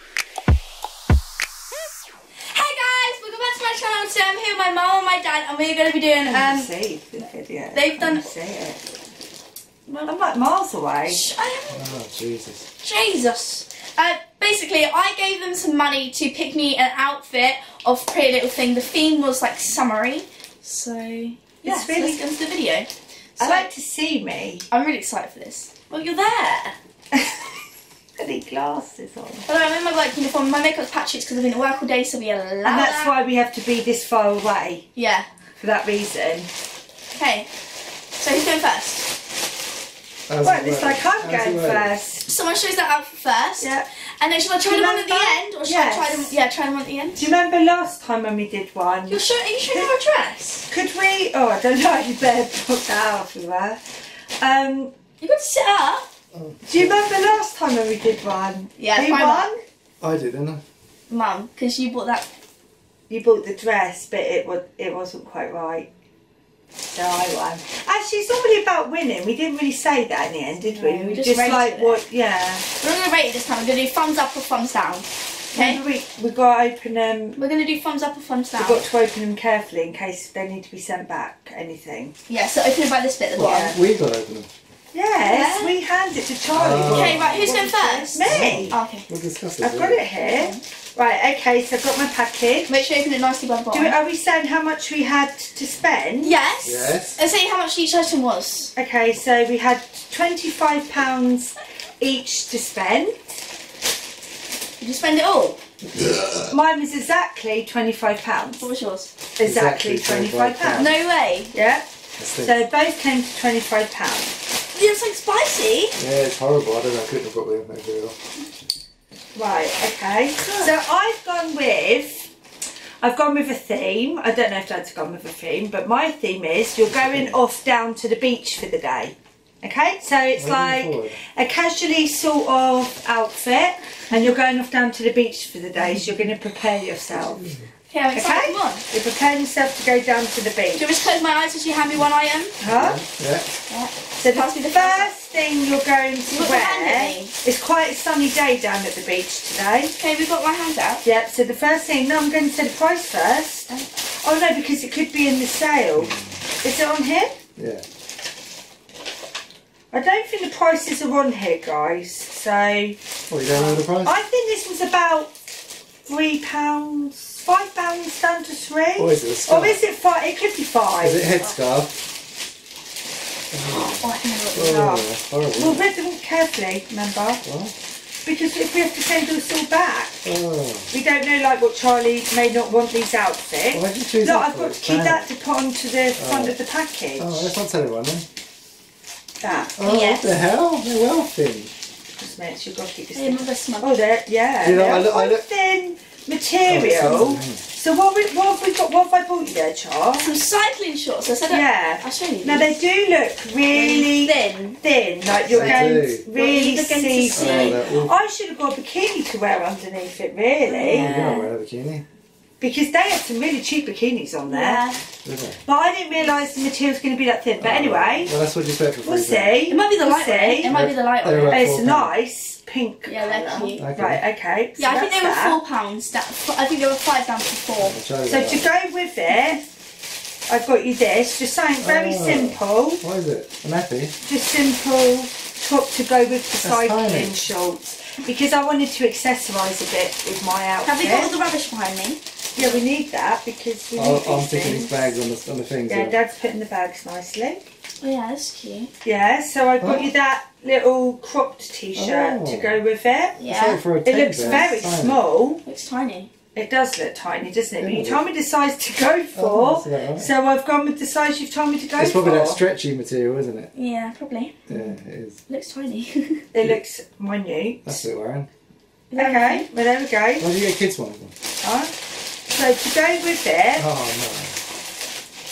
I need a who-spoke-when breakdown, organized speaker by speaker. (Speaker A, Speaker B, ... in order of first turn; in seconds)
Speaker A: 2.5-6.7, 7.7-8.3, 9.9-10.4, 11.1-11.9, 12.8-23.7, 24.7-26.7, 29.4-33.1, 35.0-35.3, 37.1-37.5, 38.2-39.1, 42.3-47.3, 49.1-50.7, 55.2-56.1, 58.8-59.5, 61.1-62.3, 70.6-72.0, 72.8-75.8, 77.3-78.8, 82.3-83.8, 85.2-85.8, 86.9-89.1, 90.2-90.6, 92.7-94.0, 96.2-98.7, 104.8-105.6, 108.6-109.1, 110.8-111.5, 114.7-116.0, 120.4-120.7, 137.9-138.8, 140.7-142.6, 143.7-145.1, 146.3-147.3, 150.0-151.0, 173.9-174.8, 189.5-190.4, 193.1-193.9, 200.2-202.7, 203.7-204.8, 205.4-207.8, 210.6-211.5, 214.4-215.0, 219.7-221.7, 223.1-223.8, 224.8-228.0, 240.8-242.8, 248.0-248.9, 253.4-253.8, 254.4-254.7, 255.6-256.3, 263.7-264.6, 265.5-266.4, 269.1-269.7
Speaker B: 6.2-8.8, 10.1-11.2, 21.6-22.2, 23.4-24.6, 27.1-27.5, 28.2-29.4, 32.6-34.9, 35.6-36.5, 40.4-42.3, 43.6-43.9, 44.6-46.3, 47.2-49.9, 50.7-53.8, 54.4-54.9, 56.7-59.6, 63.1-65.9, 66.8-72.7, 75.5-77.4, 78.6-82.1, 83.4-83.8, 84.9-88.8, 89.6-92.7, 93.7-96.3, 98.8-103.2, 106.5-108.7, 109.4-110.9, 111.5-111.9, 112.4-114.4, 119.3-122.3, 123.0-137.5, 138.1-140.9, 142.6-143.0, 144.2-149.9, 151.0-153.7, 154.2-157.3, 159.9-163.0, 163.5-165.3, 166.1-171.3, 174.5-177.4, 178.2-180.2, 180.9-187.5, 189.4-189.7, 192.2-200.3, 201.5-211.3, 212.6-214.8, 215.6-218.3, 219.0-220.8, 221.5-225.6, 228.2-229.6, 230.5-233.0, 234.2-241.3, 242.6-245.1, 245.9-247.6, 249.0-253.4, 254.1-255.6, 256.6-262.6, 266.5-268.1, 269.1-270.5, 271.6-271.9, 272.5-273.8
Speaker C: 11.7-12.7, 40.3-41.9, 56.3-57.1, 60.0-60.6, 83.4-84.5, 86.5-87.6, 88.2-90.1, 96.6-97.2, 105.9-106.5, 109.4-111.0, 112.2-112.6, 116.0-118.2, 126.9-127.4, 130.3-131.2, 137.1-137.6, 142.6-143.5, 156.0-156.3, 157.6-157.8, 163.3-164.2, 169.0-169.8, 171.0-172.0, 173.5-175.8, 177.4-177.7, 180.2-180.9, 183.7-185.3, 186.2-186.6, 187.2-188.2, 189.8-191.7, 194.6-195.4, 196.7-197.6, 205.5-206.2, 207.3-208.1, 210.9-212.0, 215.2-215.6, 217.6-219.6, 220.7-222.1, 223.8-224.2, 227.8-228.7, 231.8-234.1, 236.6-237.4, 243.9-246.2, 249.8-250.1, 251.9-252.8, 253.5-255.2, 257.8-258.2, 259.3-260.3, 261.9-263.7, 264.7-265.4, 267.8-268.5, 270.4-271.3, 273.8-274.6